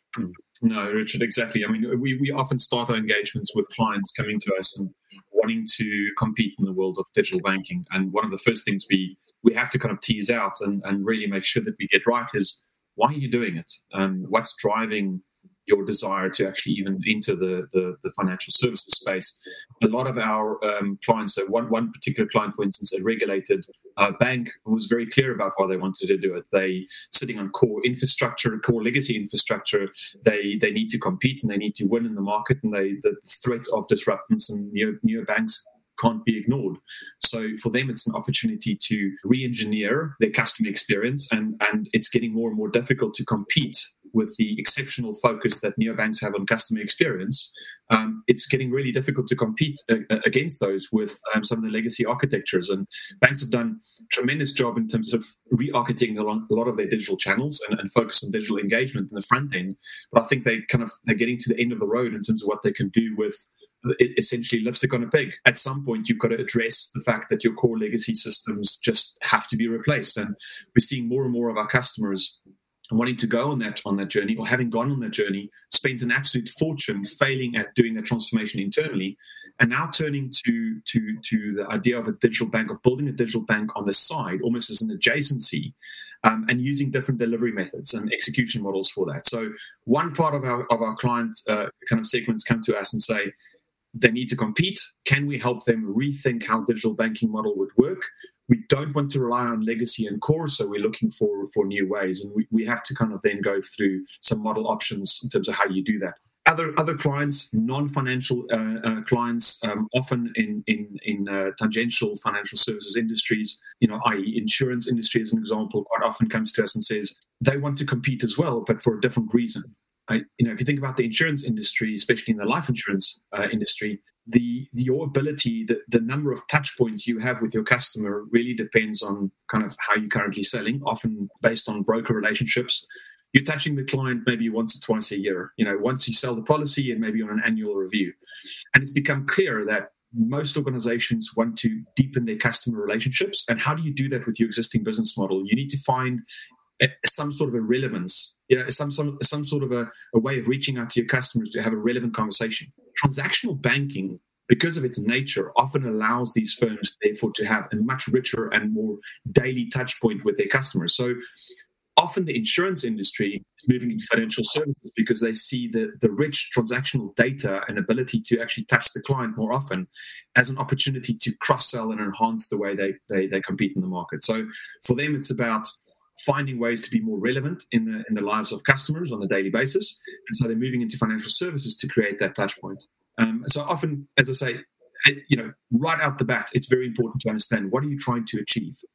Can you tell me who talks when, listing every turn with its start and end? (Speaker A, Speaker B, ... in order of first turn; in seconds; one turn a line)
Speaker A: 0.6-72.3
Speaker A: 72.9-93.3
Speaker A: 93.9-138.1
Speaker A: 138.7-146.2
Speaker A: 146.8-161.2
Speaker A: 162.0-188.8